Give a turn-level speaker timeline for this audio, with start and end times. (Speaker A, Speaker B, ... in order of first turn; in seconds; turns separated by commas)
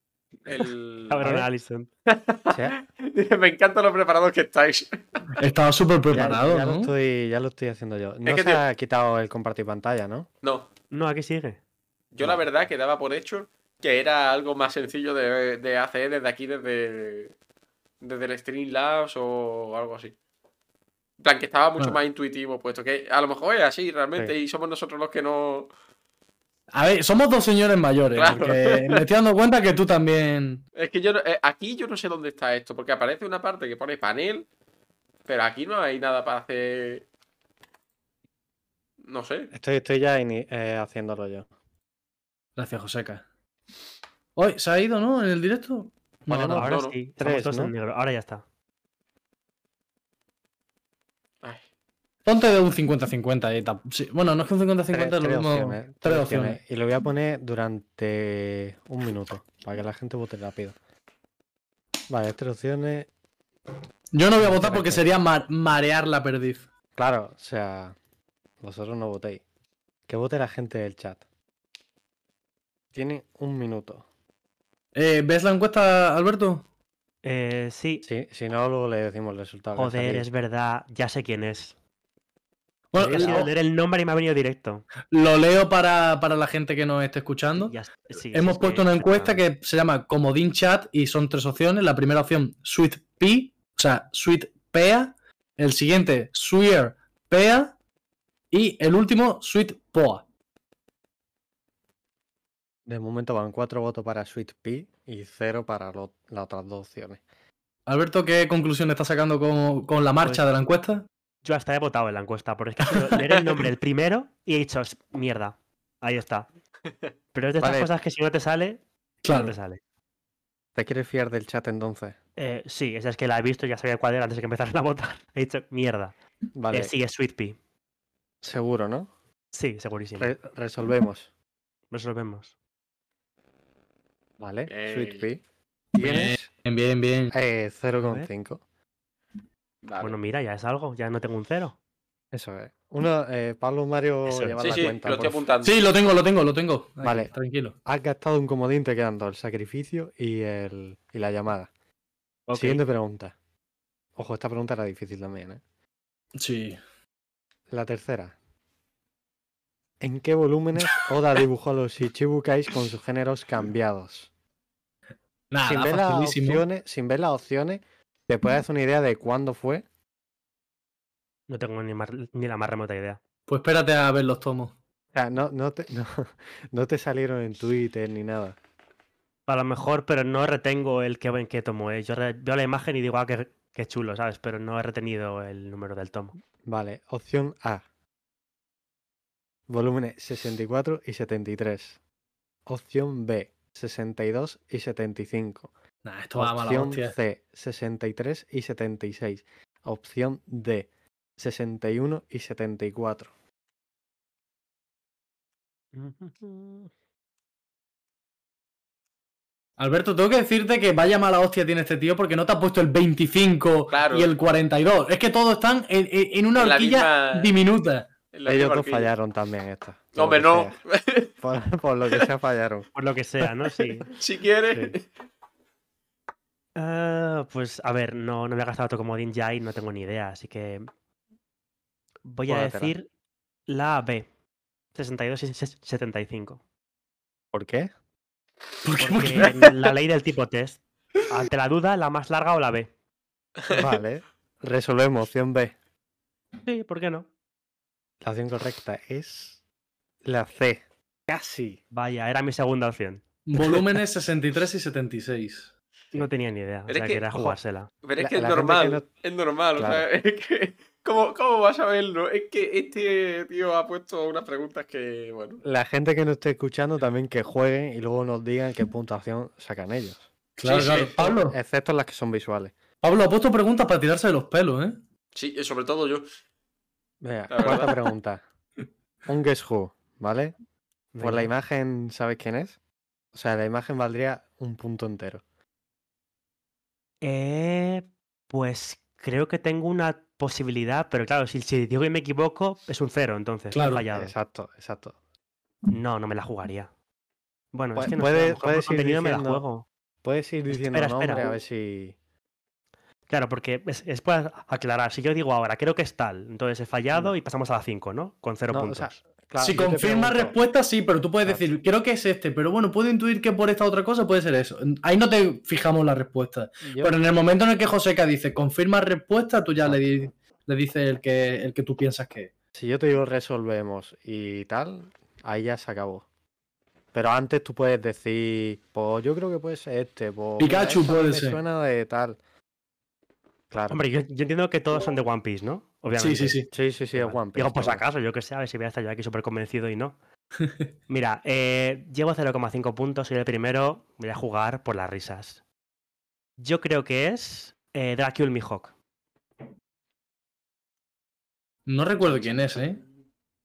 Speaker A: 0.5-1.3, Speaker B: 1.1-1.9, Speaker A: 2.1-5.2, Speaker C: 2.5-2.8, Speaker D: 5.4-6.9, Speaker C: 6.1-10.3, Speaker A: 8.2-8.6, Speaker A: 10.4-10.7, Speaker B: 10.9-11.6, Speaker A: 12.1-17.3, Speaker A: 18.0-20.1, Speaker A: 21.2-25.7, Speaker D: 26.7-30.6, Speaker A: 28.1-29.0, Speaker A: 30.8-34.5, Speaker A: 35.2-37.0, Speaker A: 39.0-39.5, Speaker C: 39.5-41.5, Speaker D: 42.5-43.2, Speaker D: 44.4-46.6, Speaker C: 46.3-47.7, Speaker B: 46.5-48.4, Speaker A: 46.6-47.0, Speaker D: 52.2-56.6, Speaker C: 54.9-60.7, Speaker C: 62.1-63.1, Speaker D: 64.1-66.7, Speaker C: 64.4-65.2, Speaker C: 67.0-68.0, Speaker C: 68.6-69.4, Speaker C: 70.1-71.2, Speaker C: 72.9-74.0, Speaker D: 74.9-76.6, Speaker B: 77.2-78.0, Speaker C: 78.0-80.2, Speaker B: 79.8-81.7, Speaker D: 82.9-83.5, Speaker C: 83.0-83.5, Speaker B: 83.0-84.8, Speaker D: 85.1-87.7, Speaker B: 87.6-89.4, Speaker D: 88.3-97.7, Speaker D: 98.5-100.2, Speaker C: 102.8-107.2, Speaker D: 107.8-111.1, Speaker B: 111.4-116.5, Speaker D: 112.9-113.2, Speaker B: 117.3-119.8, Speaker C: 117.6-117.9, Speaker D: 119.2-119.5, Speaker C: 120.7-122.2, Speaker B: 122.4-126.1, Speaker C: 126.5-126.9, Speaker B: 126.7-127.6, Speaker C: 128.4-129.1, Speaker B: 129.5-130.3, Speaker C: 130.2-131.3, Speaker B: 131.9-132.5, Speaker C: 134.4-135.4, Speaker A: 134.7-135.2, Speaker C: 135.9-136.5, Speaker D: 136.0-137.3, Speaker C: 137.3-138.6, Speaker B: 137.9-138.3, Speaker A: 139.8-140.1, Speaker B: 140.0-141.8, Speaker C: 142.3-145.4, Speaker A: 144.6-145.8, Speaker D: 145.6-147.8, Speaker C: 147.0-147.3, Speaker C: 147.8-151.7, Speaker B: 152.5-152.8, Speaker C: 152.5-153.3, Speaker C: 154.2-155.6, Speaker D: 156.4-156.8, Speaker C: 157.7-158.3, Speaker C: 160.0-164.3, Speaker D: 165.5-166.6, Speaker C: 165.6-169.8, Speaker B: 171.5-173.2, Speaker D: 173.5-174.7, Speaker C: 175.1-178.5, Speaker B: 179.5-186.3, Speaker C: 186.7-187.8, Speaker C: 189.7-192.0, Speaker C: 192.7-195.7, Speaker D: 196.0-197.2, Speaker C: 196.3-203.3, Speaker B: 205.9-206.9, Speaker D: 209.8-218.1, Speaker A: 213.9-214.3, Speaker A: 216.5-217.5, Speaker A: 218.3-219.1, Speaker C: 218.4-220.8, Speaker A: 220.1-221.3, Speaker C: 221.4-222.9, Speaker B: 222.9-224.1, Speaker A: 224.1-225.0, Speaker C: 224.7-224.9, Speaker B: 226.7-230.9, Speaker B: 232.2-233.1, Speaker C: 232.5-232.9, Speaker B: 233.7-234.2, Speaker B: 234.9-236.6, Speaker C: 237.5-237.9, Speaker D: 238.8-239.6, Speaker B: 239.0-242.9, Speaker C: 243.7-245.7, Speaker B: 246.6-247.3, Speaker C: 248.2-249.6, Speaker C: 250.2-251.8, Speaker B: 251.9-253.2, Speaker D: 253.4-255.7, Speaker B: 256.1-257.9, Speaker A: 256.9-257.3, Speaker A: 258.0-265.6, Speaker C: 258.2-259.1, Speaker C: 259.8-260.1, Speaker C: 265.6-270.3, Speaker D: 270.6-271.6, Speaker A: 270.6-271.2, Speaker C: 271.2-272.7, Speaker D: 273.0-275.0, Speaker A: 275.3-276.3, Speaker C: 277.2-278.4, Speaker A: 277.5-277.9, Speaker C: 279.3-280.5, Speaker B: 281.1-281.5, Speaker C: 281.2-282.8, Speaker C: 283.3-285.4, Speaker B: 287.2-294.3, Speaker D: 293.7-294.0, Speaker C: 294.1-295.1, Speaker B: 295.9-296.9, Speaker B: 297.7-299.9, Speaker C: 297.9-299.6, Speaker C: 300.2-302.1, Speaker B: 300.7-301.6, Speaker B: 303.3-309.2, Speaker C: 308.7-310.6, Speaker D: 309.6-322.5, Speaker C: 311.4-311.7, Speaker C: 316.8-317.2, Speaker C: 319.8-320.1, Speaker C: 322.7-326.2, Speaker C: 327.1-332.4, Speaker D: 330.6-331.6, Speaker C: 333.7-334.0, Speaker B: 333.9-340.1, Speaker D: 336.2-336.7, Speaker C: 336.7-338.0, Speaker B: 341.1-345.6, Speaker B: 346.6-348.9, Speaker D: 351.9-353.0